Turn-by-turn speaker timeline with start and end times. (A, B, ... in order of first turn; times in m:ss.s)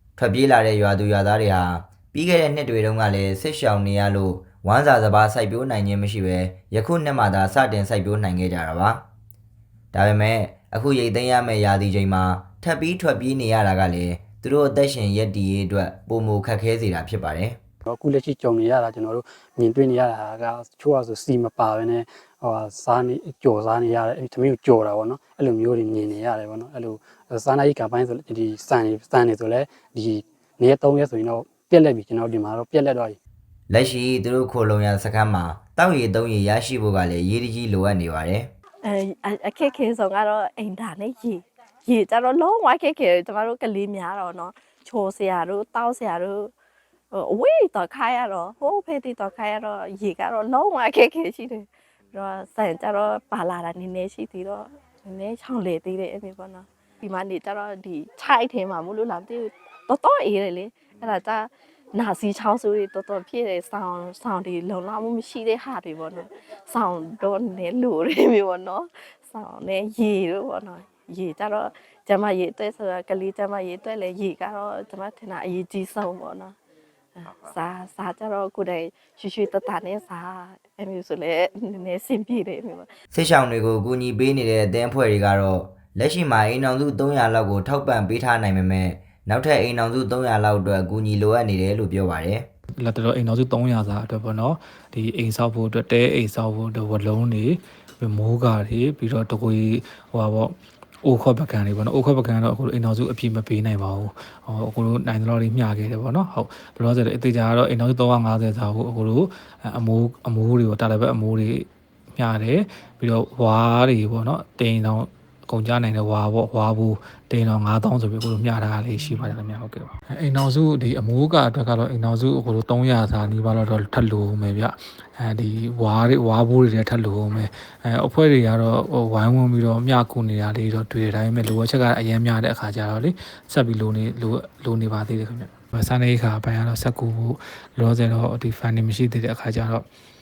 0:00.2-0:09.0 A
0:09.9-0:17.6 A
0:17.8-0:33.2 B
0:33.7-0:38.5 A
0:38.8-0:46.5 C
0:47.1-1:16.5 C
1:17.2-1:22.9 C
1:23.1-1:32.5 A
1:32.8-2:19.8 D